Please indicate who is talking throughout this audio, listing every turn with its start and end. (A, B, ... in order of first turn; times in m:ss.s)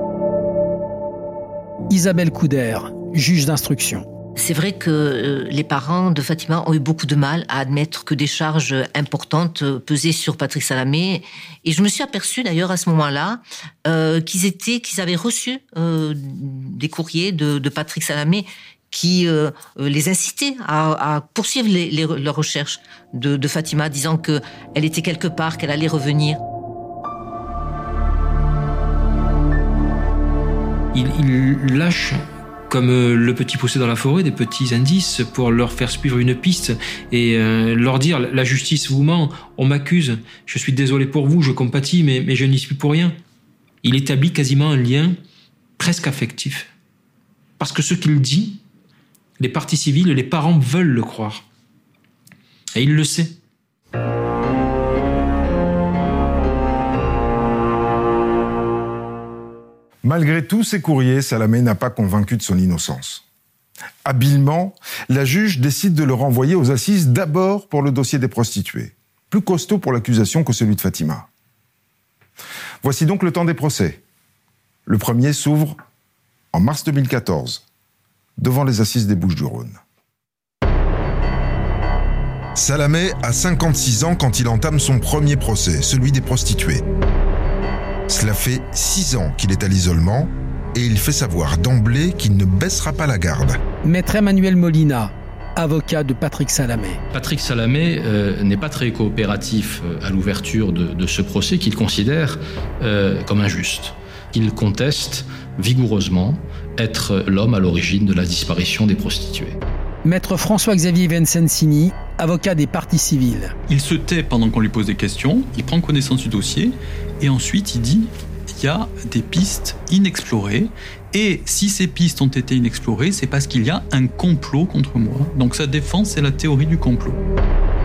0:01.9-0:04.0 A
0:04.4-0:26.4 B
0:30.9-0:43.2 C
0:43.8-0:45.2 C
0:45.8-0:46.7 C
0:47.6-0:48.6 C
0:49.4-0:51.4 C
0:52.7-0:53.3 C
1:00.0-1:03.2 D
1:04.0-1:11.3 D
1:12.8-1:14.0 D
1:14.8-1:15.8 D
1:16.5-1:17.6 D
1:18.4-1:19.8 D
1:22.5-1:26.8 D
1:28.1-1:33.6 D
1:33.8-1:37.0 A
1:37.1-1:49.6 E
1:50.0-1:53.5 A
1:53.7-2:07.2 F